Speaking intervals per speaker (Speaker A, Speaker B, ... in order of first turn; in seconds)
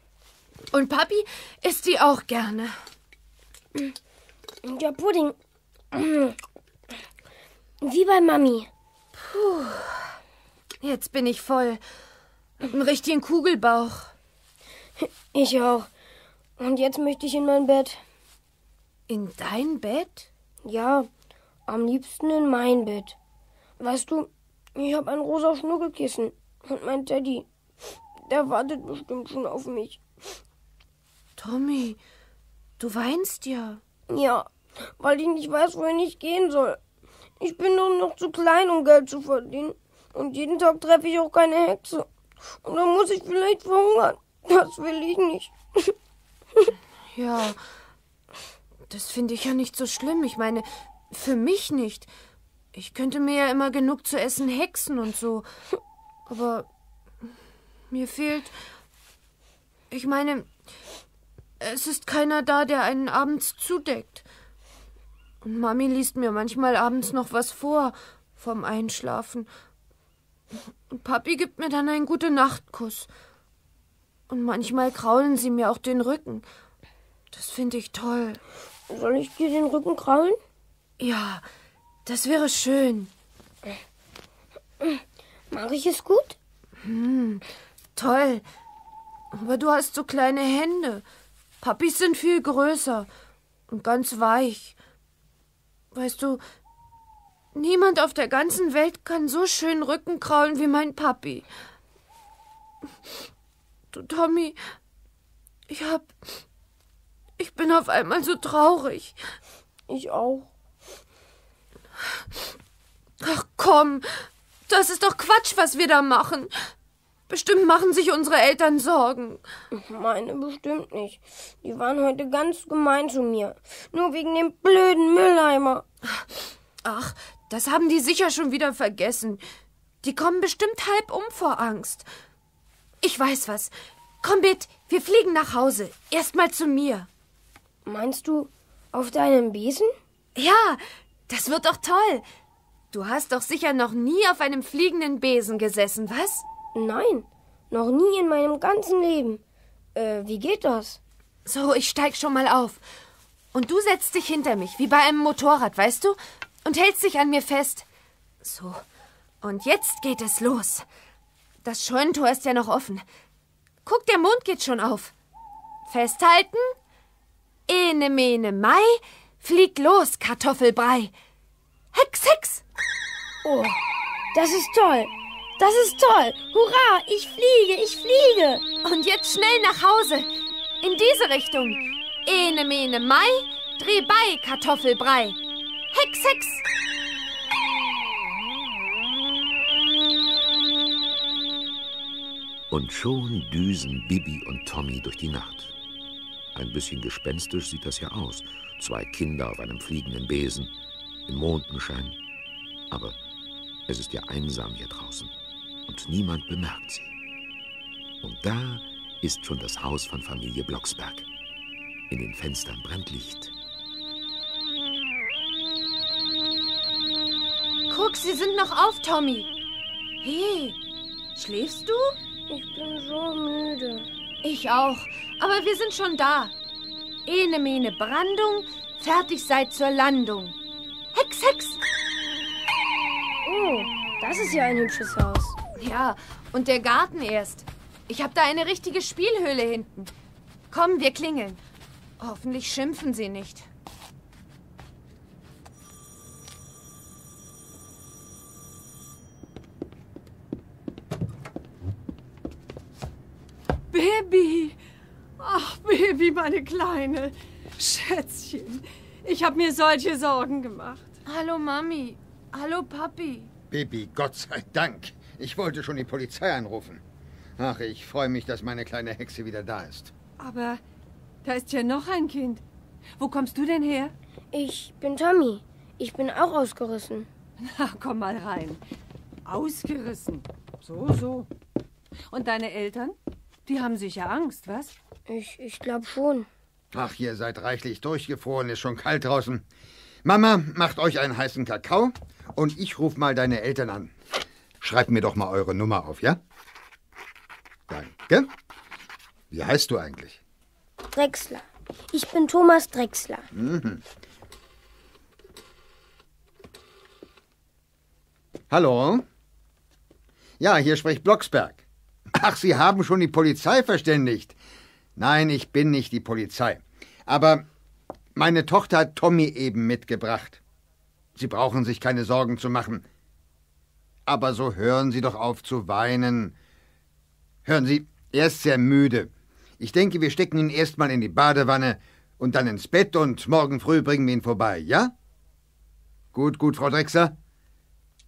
Speaker A: 0.7-2.8, 9.2-10.1, 10.8-11.8, 12.7-14.1, 19.1-20.3, 31.4-32.0, 32.8-33.8, 47.1-47.6, 48.9-52.1, 52.7-55.5, 56.3-56.7, 57.9-58.5, 59.9-60.5, 61.6-64.2, 65.4-69.5, 70.9-73.1, 74.3-76.5, 77.3-78.4, 81.0-81.5, 82.1-83.1, 86.8-87.4, 88.0-88.5, 89.3-91.0, 91.6-93.1, 93.7-94.8, 95.9-96.4, 97.5-101.5, 103.9-104.6, 105.7-106.1, 107.4-109.2, 113.2-116.5, 117.3-119.4, 126.8-129.4, 130.0-132.1, 133.0-137.1, 140.4-142.2, 142.9-146.4, 151.5-152.8, 153.5-157.9, 158.4-158.8, 159.4-160.8, 161.6-163.0, 163.8-165.1, 165.9-166.7, 167.7-171.1, 171.9-172.6, 178.8-180.3, 180.8-185.4, 185.9-186.6, 217.9-219.5, 220.2-220.8, 221.4-222.2, 224.4-226.5, 227.3-230.6, 231.1-231.8, 235.8-240.1, 240.7-241.6, 242.2-243.7, 261.3-263.5
Speaker B: 4.6-5.3, 5.9-6.4, 7.8-8.7, 15.0-15.9, 16.6-18.0, 20.6-21.1, 21.7-23.2, 23.8-27.5, 28.3-30.0, 34.1-36.8, 37.4-42.1, 42.6-46.0, 78.9-80.4, 84.8-86.4, 109.9-110.5, 119.7-125.8, 137.9-139.9, 146.7-149.4, 149.9-151.0, 173.4-173.8, 174.3-178.6, 222.5-224.1, 233.4-235.6, 274.5-277.3, 285.3-286.5, 301.1-303.5
Speaker C: 192.7-195.8, 196.5-200.7, 201.3-202.2, 202.9-203.2, 203.9-205.3, 205.9-207.1, 208.2-211.3, 212.1-213.5
Speaker D: 253.9-254.8, 255.4-261.1, 270.4-270.8, 271.4-272.6, 273.2-274.1, 277.6-278.8, 279.5-281.5, 282.3-283.1, 283.7-284.9
Speaker E: 263.7-267.0, 267.6-270.1, 286.9-289.6, 290.2-294.1, 294.8-296.4, 297.9-298.5, 299.5-300.4, 303.5-304.0, 308.7-309.3, 310.6-311.8, 312.4-314.6, 315.2-317.6, 318.4-320.6, 321.4-323.1, 324.3-326.6, 327.6-335.1, 336.3-337.4